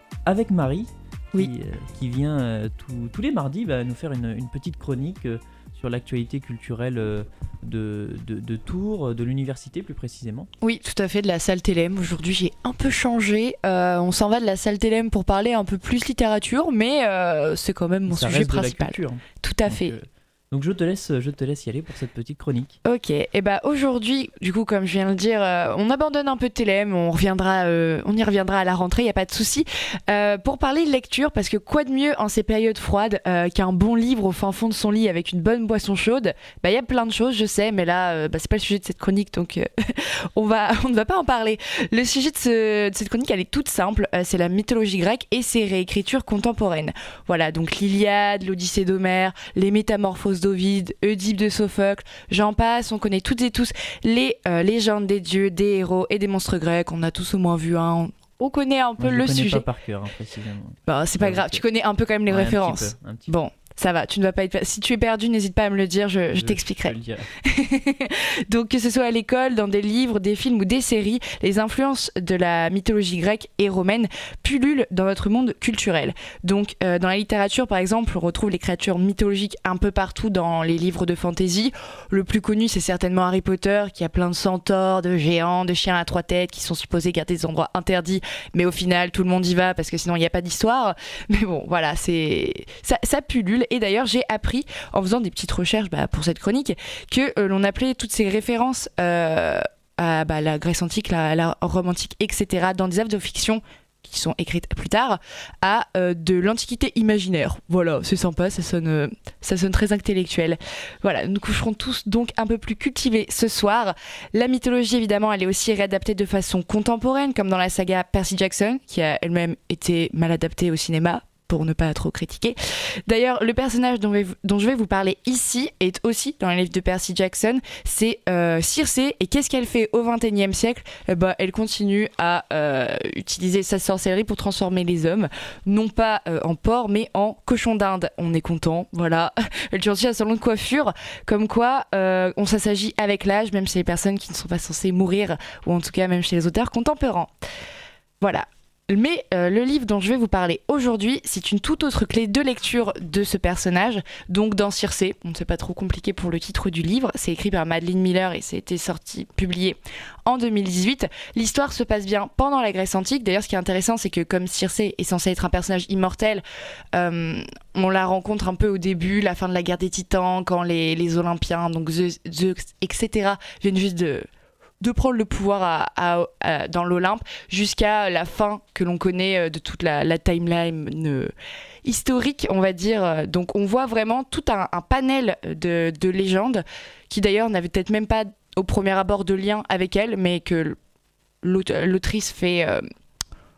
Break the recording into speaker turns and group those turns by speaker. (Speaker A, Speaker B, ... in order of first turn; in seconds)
Speaker A: 0.2-10.5, 18.1-22.8, 59.0-61.6, 62.3-63.3, 66.3-67.3
Speaker B: 10.6-19.9, 22.9-59.6, 60.9-122.5, 123.1-147.3, 148.2-174.3, 174.8-181.3, 181.8-190.8, 191.4-192.8